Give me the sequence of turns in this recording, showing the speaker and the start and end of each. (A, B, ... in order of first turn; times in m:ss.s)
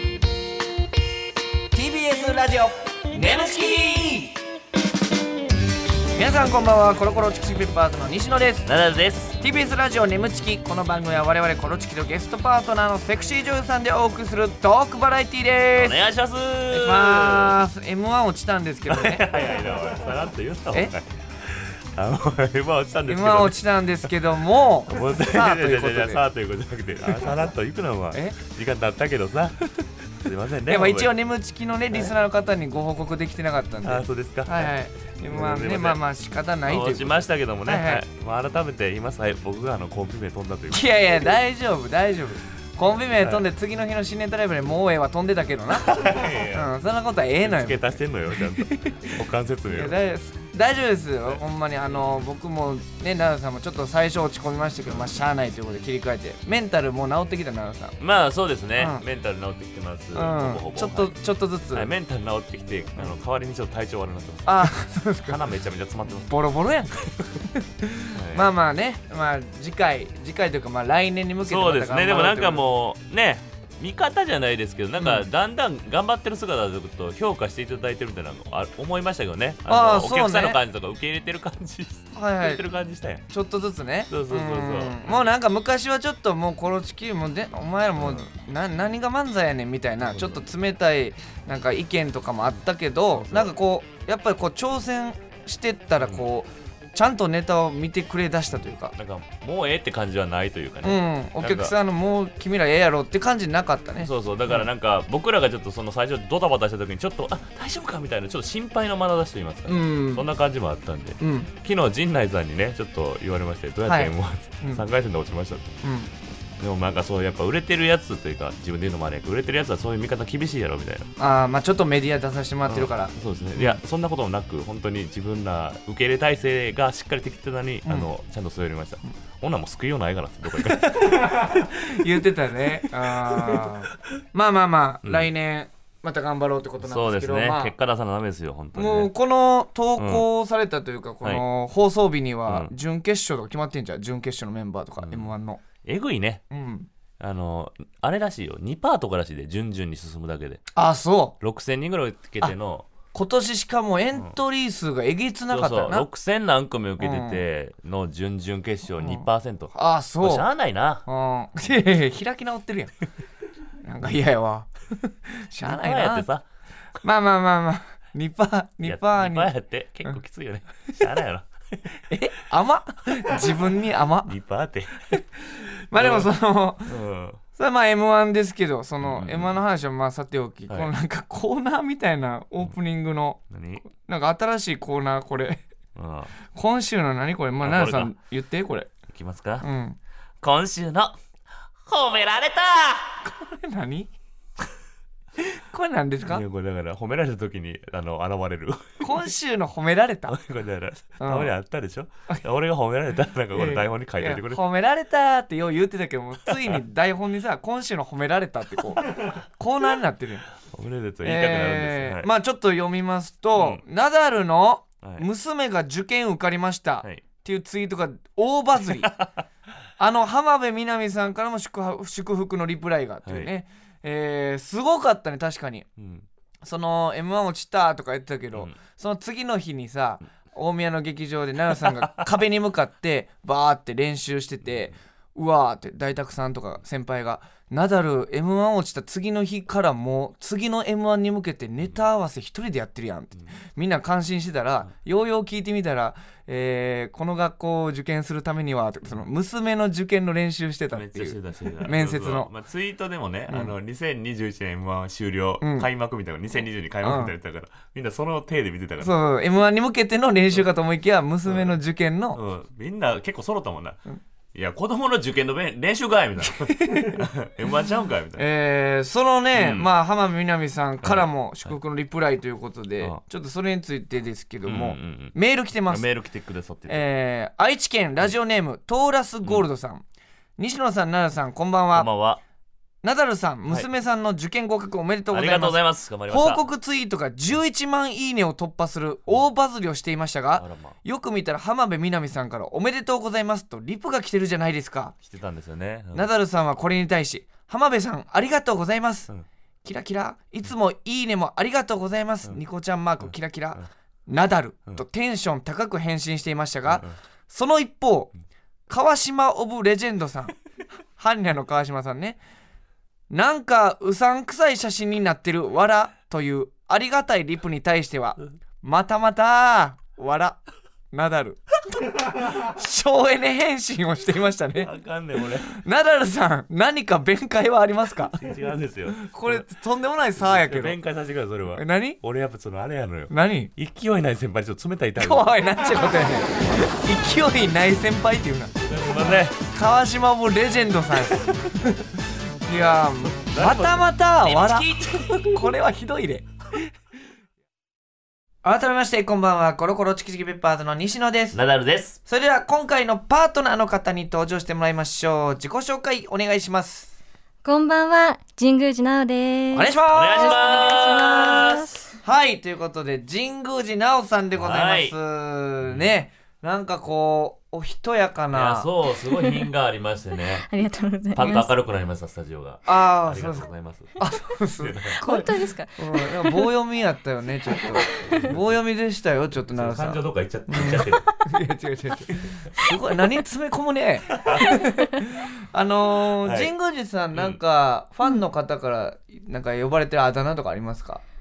0:01.7-0:04.4 A
0:06.2-0:08.7 A
0:08.6-0:09.4 B
0:09.4-0:16.0 A
0:15.7-0:17.6 B
0:16.7-0:19.3 A
0:18.9-0:23.6 B
0:23.1-0:26.2 A
0:24.9-0:29.6 B
0:30.1-0:31.1 B
0:30.7-0:38.0 A
0:33.8-0:34.7 B
0:35.2-0:36.0 B
0:36.6-0:41.3 B
0:40.7-0:48.0 A
0:43.2-0:43.4 B
0:45.8-0:46.7 B
0:47.4-0:50.0 B
0:48.6-0:49.1 A
0:49.7-0:58.0 A
0:58.0-1:01.2 B
0:58.8-0:59.0 A
1:00.1-1:01.9 A
1:01.7-1:06.4 B
1:04.4-1:05.4 A
1:06.2-1:12.7 A
1:08.1-1:08.5 B
1:11.4-1:23.2 B
1:15.0-1:15.2 A
1:19.7-1:20.6 A
1:22.1-1:22.6 A
1:23.3-1:39.0 A
1:24.1-1:25.3 B
1:28.0-1:28.2 B
1:30.0-1:30.4 B
1:33.1-1:33.5 B
1:36.0-1:36.2 B
1:39.0-1:41.7 B
1:40.8-1:44.6 A
1:44.0-1:55.7 B
1:49.7-1:50.2 A
1:51.2-1:51.5 A
1:53.8-1:54.8 A
1:55.8-1:56.1 A
1:56.6-2:01.1 B
2:01.2-2:03.8 A
2:02.6-2:11.3 B
2:07.8-2:08.1 A
2:10.7-2:17.7 A
2:12.8-2:13.7 B
2:15.0-2:15.3 B
2:16.8-2:19.1 B
2:18.7-2:25.6 A
2:20.0-2:20.2 B
2:25.0-2:26.4 B
2:26.5-2:26.9 A
2:27.2-2:30.6 B
2:30.7-2:31.4 A
2:31.4-2:32.9 B
2:33.1-2:36.1 A
2:35.5-2:41.0 B
2:37.0-2:37.4 A
2:39.0-2:40.5 A
2:41.0-2:42.9 A
2:43.8-2:46.3 A
2:45.6-2:46.4 B
2:47.0-2:49.5 A
2:48.8-2:51.5 B
2:52.0-2:54.3 A
2:54.2-2:55.1 B
2:55.9-2:56.9 A
2:55.9-2:56.3 B
2:56.8-2:57.4 B
2:57.6-3:05.6 A
2:59.0-2:59.6 B
3:03.5-3:03.9 B
3:06.0-3:06.4 B
3:06.5-3:08.9 A
3:07.6-3:08.1 B
3:09.1-3:09.6 B
3:09.6-3:10.0 A
3:10.4-3:11.2 B
3:11.8-3:13.2 B
3:13.2-3:14.1 A
3:15.5-3:16.4 A
3:16.2-3:19.1 B
3:19.0-3:20.4 A
3:20.3-3:24.6 B
3:21.2-3:21.5 A
3:23.5-3:30.4 A
3:30.6-3:32.3 B
3:31.2-3:39.1 A
3:33.6-3:33.8 B
3:35.0-3:35.3 B
3:38.9-3:39.4 B
3:40.0-3:45.9 A
3:43.2-3:43.5 B
3:46.0-3:46.2 B
3:46.6-4:12.5 A
3:51.9-3:52.3 B
3:54.7-3:54.9 B
4:10.9-4:19.1 B
4:15.6-4:15.9 A
4:17.0-4:17.3 A
4:19.0-4:22.4 A
4:21.4-4:21.8 B
4:22.3-4:24.0 B
4:24.5-4:28.4 B
4:26.5-4:27.2 A
4:28.4-4:36.0 A
4:29.5-4:29.9 B
4:31.0-4:31.8 B
4:34.6-4:35.4 B
4:35.9-4:37.1 B
4:36.9-4:40.0 A
4:40.6-4:42.1 A
4:41.9-4:42.4 B
4:43.0-4:55.1 A
4:45.3-4:46.6 B
4:50.6-4:51.0 B
4:55.2-4:56.3 B
4:56.1-4:59.3 A
4:59.8-5:08.3 A
5:03.2-5:03.9 B
5:06.9-5:07.1 B
5:08.9-5:10.5 A
5:11.2-5:12.4 A
5:13.3-5:20.6 A
5:21.1-5:21.6 A
5:22.1-5:24.9 A
5:24.8-5:25.7 B
5:25.7-5:28.4 A
5:28.4-5:29.6 B
5:29.2-5:31.0 A
5:30.4-5:35.5 B
5:31.7-5:32.2 A
5:33.3-5:33.7 A
5:35.2-5:38.7 A
5:38.8-5:39.6 B
5:39.7-5:42.1 A
5:41.2-5:41.5 B
5:42.6-5:46.4 A
5:42.7-5:45.4 B
5:48.6-5:51.6 A
5:51.5-5:52.2 B
5:52.2-5:57.1 A
5:57.6-6:02.1 C
5:59.7-6:01.1 A
6:00.1-6:01.9 B
6:02.2-6:08.9 A
6:04.5-6:05.1 B
6:05.8-6:06.1 B
6:08.5-6:10.7 B
6:09.3-6:09.7 C
6:10.6-6:11.7 C
6:11.3-6:14.2 B
6:12.8-6:31.2 A
6:14.8-6:15.2 B
6:15.2-6:16.7 C
6:18.2-6:18.7 B
6:19.7-6:21.2 B
6:24.3-6:24.7 B
6:26.4-6:26.7 B
6:27.3-6:27.6 B